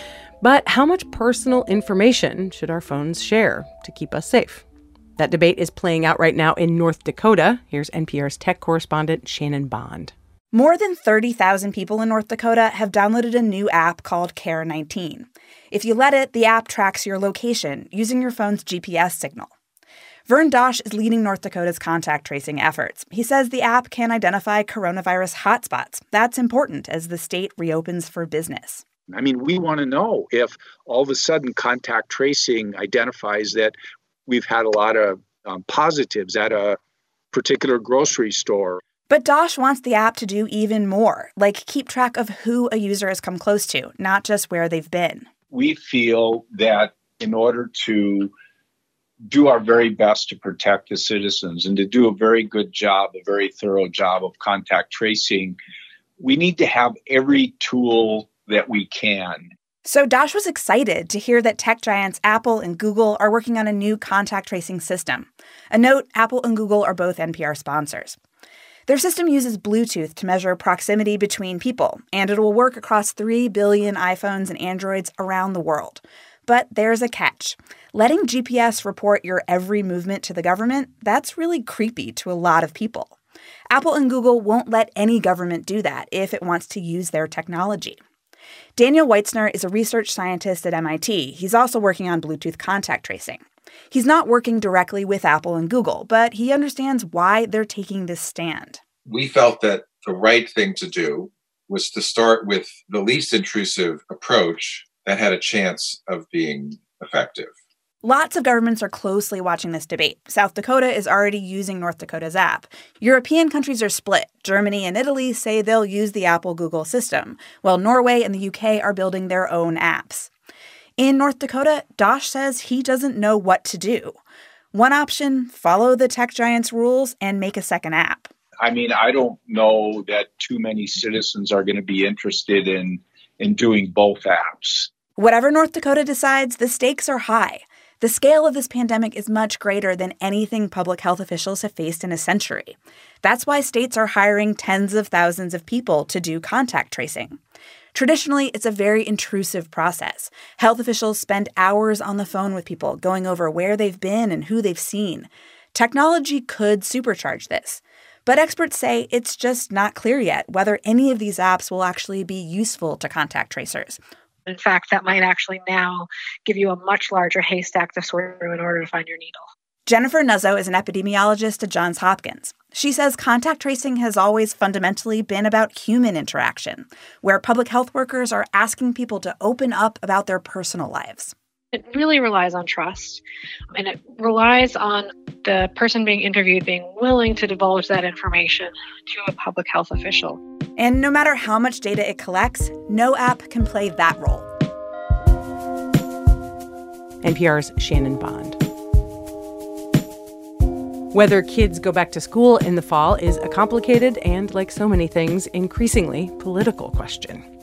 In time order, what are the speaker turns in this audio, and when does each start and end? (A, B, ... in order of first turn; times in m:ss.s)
0:00.4-0:04.6 A
0:05.2-0:10.1 A
0:10.5-0:19.5 B
0:20.2-0:28.8 B
0:29.1-0:33.8 C
0:34.3-0:36.8 C
0:37.3-0:38.8 C
0:39.1-0:45.3 B
0:45.5-0:48.3 C
0:49.3-0:55.6 C
0:56.2-0:59.5 C
0:59.8-1:08.2 B
1:08.9-1:23.2 B
1:23.7-1:28.0 B
1:28.8-1:38.8 B
1:39.1-1:47.5 D
1:48.0-2:00.3 B
2:01.0-2:04.2 B
2:04.7-2:08.3 B
2:08.6-2:14.9 C
2:15.2-2:27.4 B
2:27.9-2:44.0 B
2:44.5-2:49.4 E
2:49.8-3:01.3 B
3:01.7-3:03.2 E
3:03.7-3:10.4 E
3:10.8-3:14.5 B
3:17.2-3:18.6 A
3:21.1-3:27.4 A